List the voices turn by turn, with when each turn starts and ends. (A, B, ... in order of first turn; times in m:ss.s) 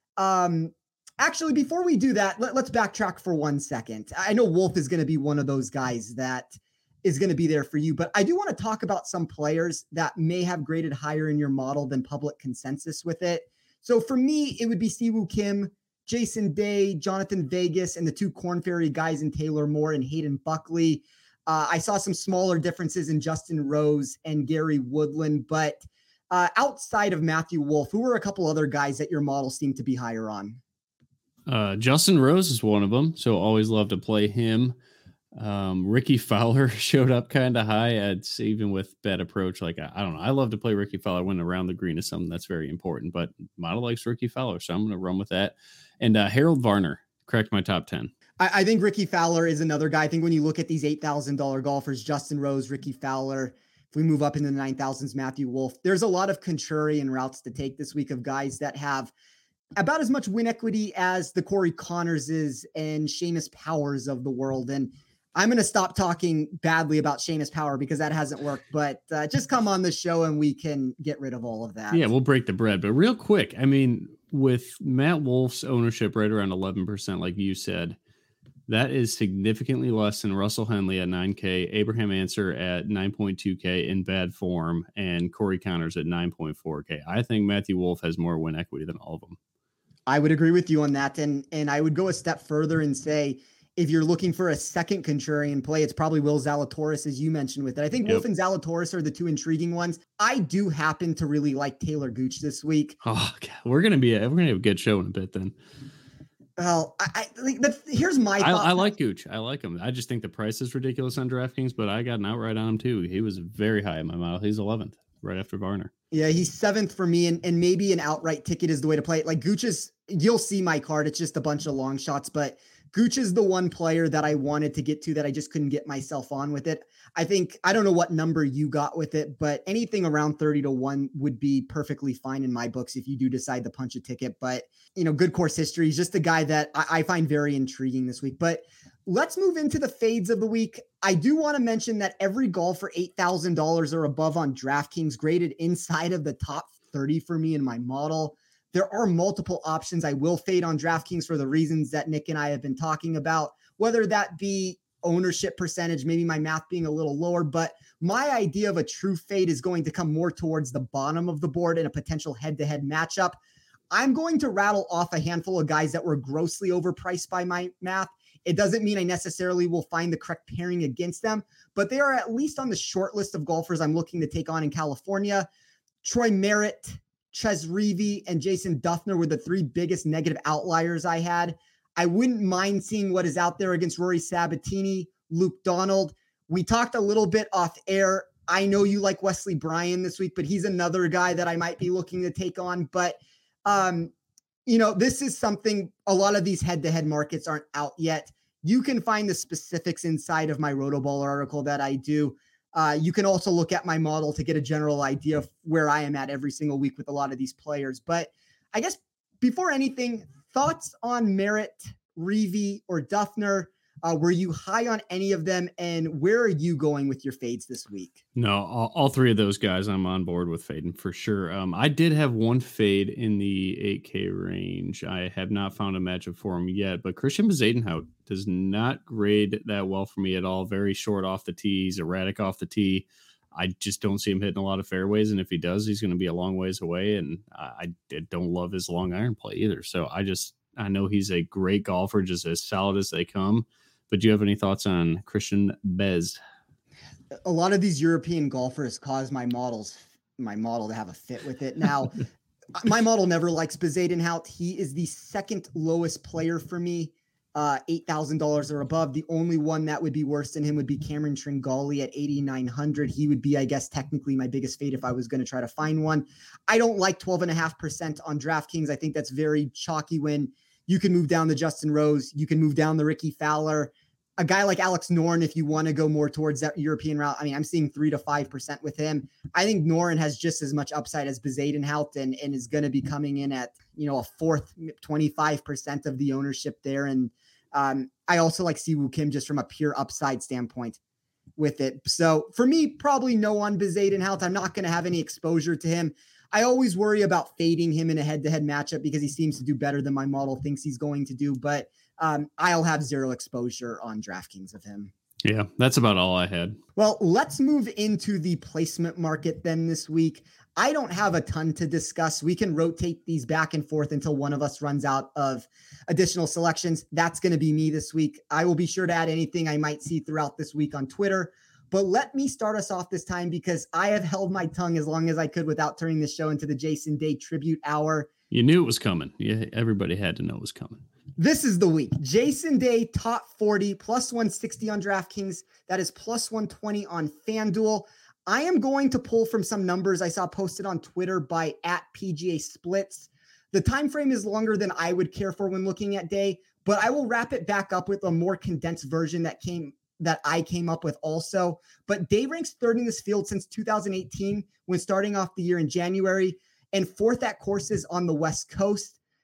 0:00.2-0:30.6 A
0:31.5-0:34.8 B
0:35.3-0:48.1 B
0:48.4-0:59.1 A
0:59.8-1:12.1 A
1:11.9-1:18.0 B
1:18.7-1:29.4 B
1:30.1-1:43.0 A
1:43.0-1:45.6 B
1:46.6-1:48.9 A
1:48.4-1:55.9 B
1:56.1-2:43.4 A
2:43.9-2:55.5 A
2:56.0-3:14.1 A
3:14.7-3:38.2 A
3:38.4-4:06.4 B
4:07.5-4:12.2 A
4:12.8-4:51.0 A
4:51.6-5:05.1 A
5:05.4-5:06.8 B
5:07.0-5:28.3 A
5:28.5-5:31.0 B
5:31.4-5:59.2 A